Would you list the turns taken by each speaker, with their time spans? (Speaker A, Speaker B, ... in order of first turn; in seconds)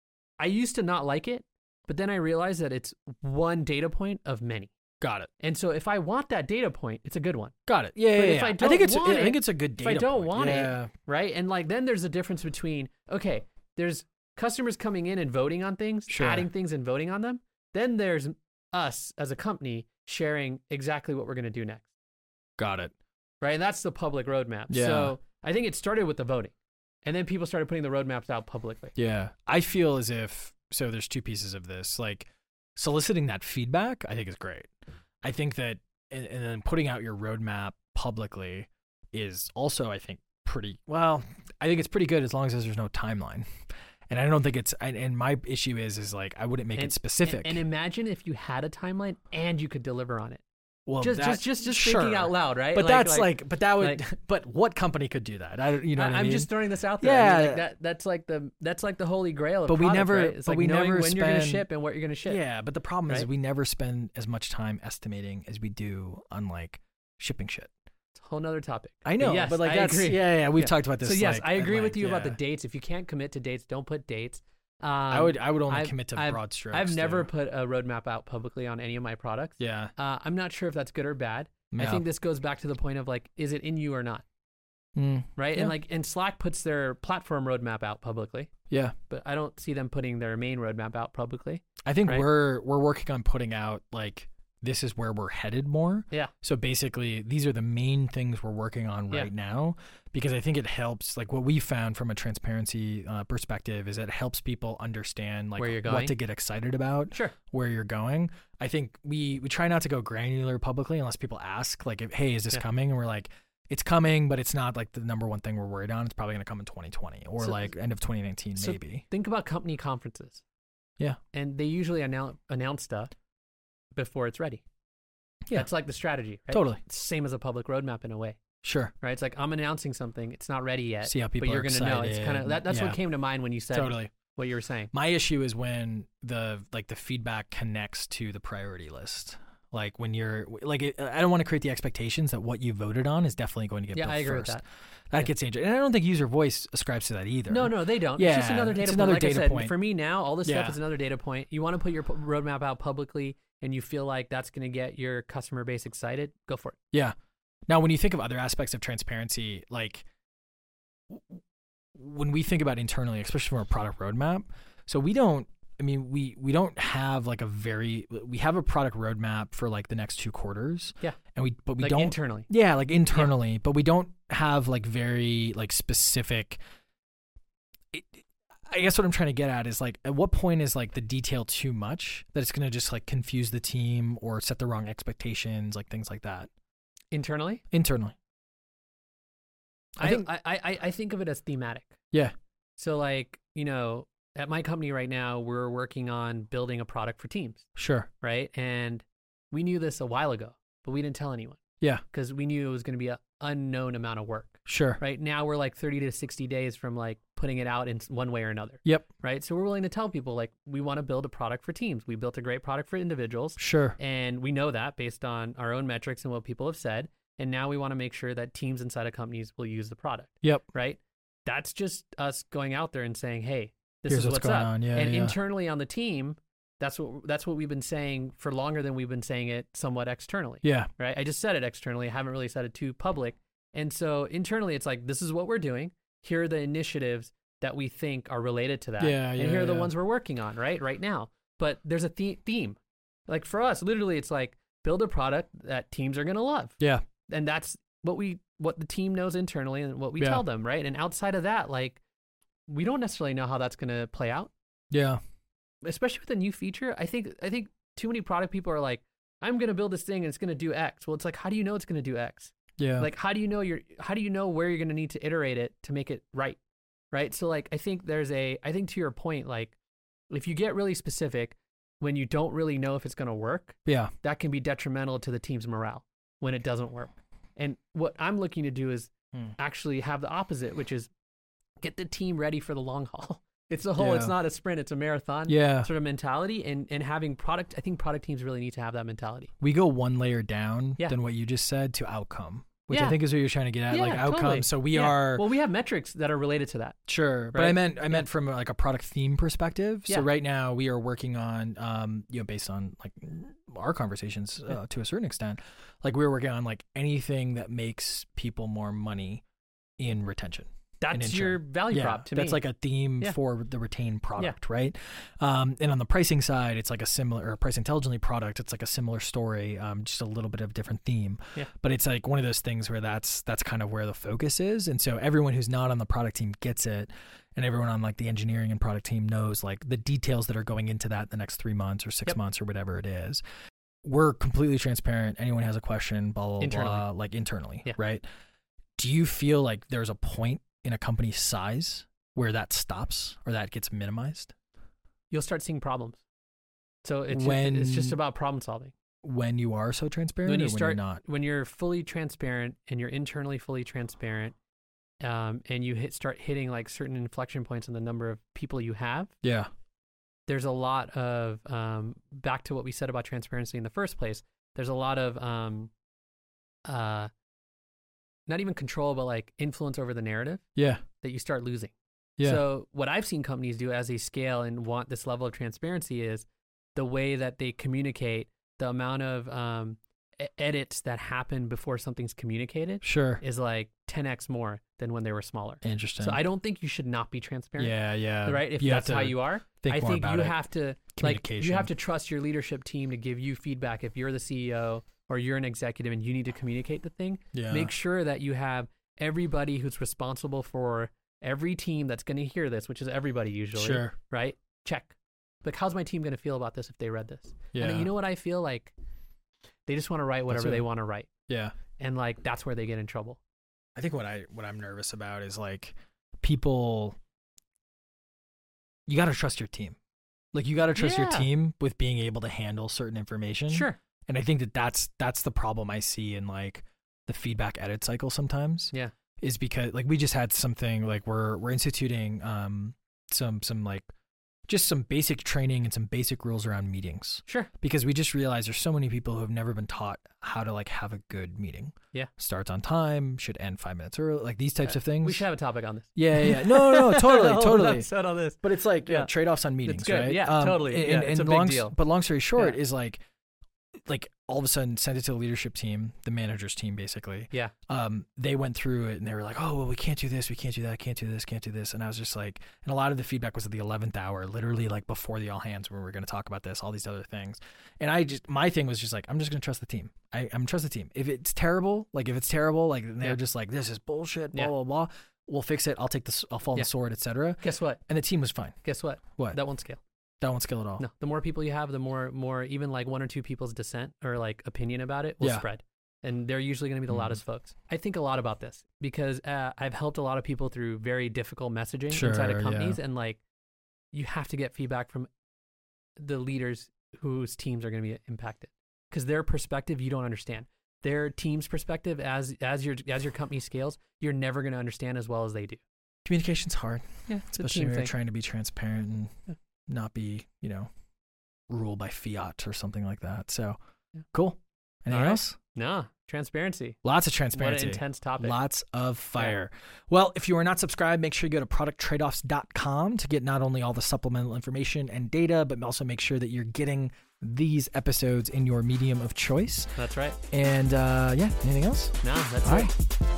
Speaker A: 0.4-4.7, 5.4-21.9, 23.4-29.0, 46.8-50.4, 51.0-54.0, 56.0-62.4, 68.2-84.2, 85.4-88.5, 89.1-92.3, 105.6-106.2, 117.4-117.7, 118.6-120.4, 121.3-123.1, 123.9-124.6, 125.5-128.4, 129.0-134.9, 143.9-144.6, 147.5-156.8, 171.8-172.5, 187.1-187.6, 190.0-192.0, 192.8-197.7, 198.2-252.0, 252.7-254.5, 255.8-266.6, 267.1-269.8, 270.3-281.1, 281.8-289.5, 292.9-293.2, 293.9-297.0, 297.5-298.3, 311.0-312.6, 336.6-337.1, 345.3-346.2, 347.0-348.9, 350.4-354.6, 355.2-359.3, 360.5-365.9, 366.9-367.3, 368.5-370.7, 371.2-408.9, 409.9-411.3, 412.0-413.4, 421.0-421.5, 423.7-424.0, 444.8-452.0, 477.6-478.0, 478.8-480.0, 481.0-493.4, 494.1-495.3, 496.2-505.8, 507.3-508.1, 515.1-517.0, 517.5-518.6, 519.4-519.6, 530.0-530.4, 532.2-532.9
Speaker B: 5.0-5.3, 7.7-10.9, 16.1-16.5, 22.6-22.9, 24.7-25.2, 29.0-34.7, 35.2-43.5, 44.1-47.6, 50.9-57.6, 59.7-61.7, 62.2-67.7, 69.0-72.4, 75.1-77.3, 79.6-79.9, 81.7-82.1, 85.0-85.8, 91.8-119.0, 126.5-126.8, 128.6-128.9, 131.1-133.0, 133.7-134.1, 134.9-149.8, 150.4-150.8, 157.7-160.1, 161.1-161.4, 161.9-176.6, 177.9-186.5, 187.7-188.2, 190.0-190.3, 197.8-198.1, 204.7-205.0, 213.6-214.0, 224.1-225.4, 230.6-230.9, 239.0-239.9, 250.2-250.4, 254.9-255.2, 262.8-263.1, 273.9-274.1, 284.0-284.4, 285.5-285.9, 289.6-295.5, 297.1-309.4, 310.0-333.4, 334.0-338.3, 339.0-344.5, 347.3-348.2, 349.2-351.2, 359.4-359.7, 370.8-371.0, 372.4-372.6, 383.0-383.4, 385.8-386.4, 387.8-390.6, 391.1-391.9, 397.5-397.9, 403.8-404.1, 407.7-408.1, 410.5-410.9, 411.5-411.8, 414.0-417.2, 419.1-420.0, 420.5-434.1, 434.7-445.4, 446.2-448.1, 448.6-453.2, 454.1-478.8, 480.4-481.1, 485.4-485.7, 487.1-487.4, 492.1-493.0, 506.2-509.3, 509.9-510.9, 511.7-513.8, 514.3-515.6, 517.0-529.9, 530.5-532.1, 532.6-532.9